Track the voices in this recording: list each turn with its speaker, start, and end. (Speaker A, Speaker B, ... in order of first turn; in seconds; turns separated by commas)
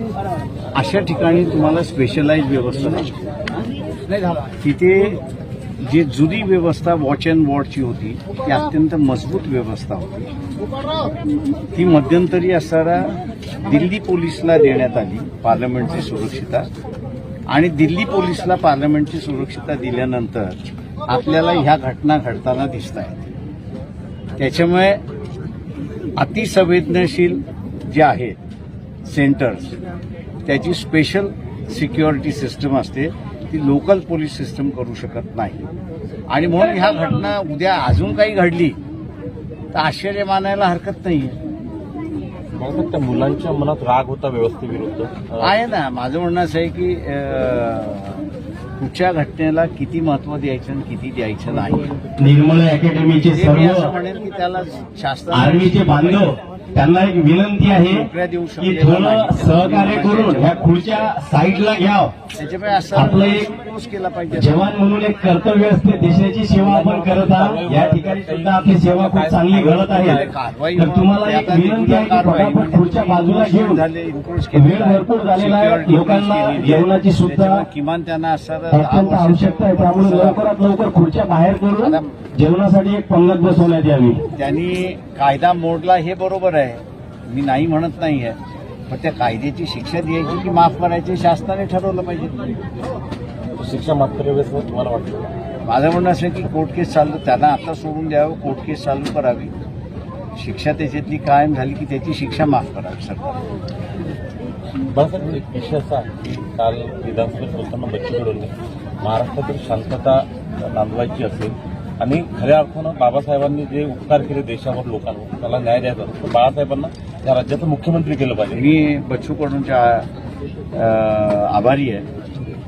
Speaker A: 0.7-3.2, Speaker A: 4.6-5.2, Speaker A: 5.8-10.3, Speaker A: 11.7-16.7, Speaker A: 17.5-23.3, Speaker A: 24.4-25.0, Speaker A: 26.1-28.4, Speaker A: 29.0-29.7, Speaker A: 30.4-35.7, Speaker A: 36.3-38.8, Speaker A: 39.7-41.4, Speaker B: 42.5-45.5, Speaker A: 45.4-48.3, Speaker A: 48.8-51.9, Speaker C: 52.2-53.9, Speaker A: 53.3-56.4, Speaker C: 55.3-58.0, Speaker A: 57.7-61.1, Speaker C: 58.6-62.1, Speaker A: 62.4-64.7, Speaker C: 62.9-63.5, Speaker C: 64.3-70.2, Speaker B: 66.1-70.3, Speaker A: 70.0-80.4, Speaker C: 70.7-73.8, Speaker C: 74.5-77.6, Speaker C: 78.7-84.2, Speaker A: 81.8-82.1, Speaker A: 84.3-88.4, Speaker A: 88.9-92.5, Speaker B: 93.6-95.3, Speaker A: 95.7-99.5, Speaker A: 100.3-103.3, Speaker B: 104.9-118.7, Speaker A: 118.5-120.1, Speaker A: 120.7-122.1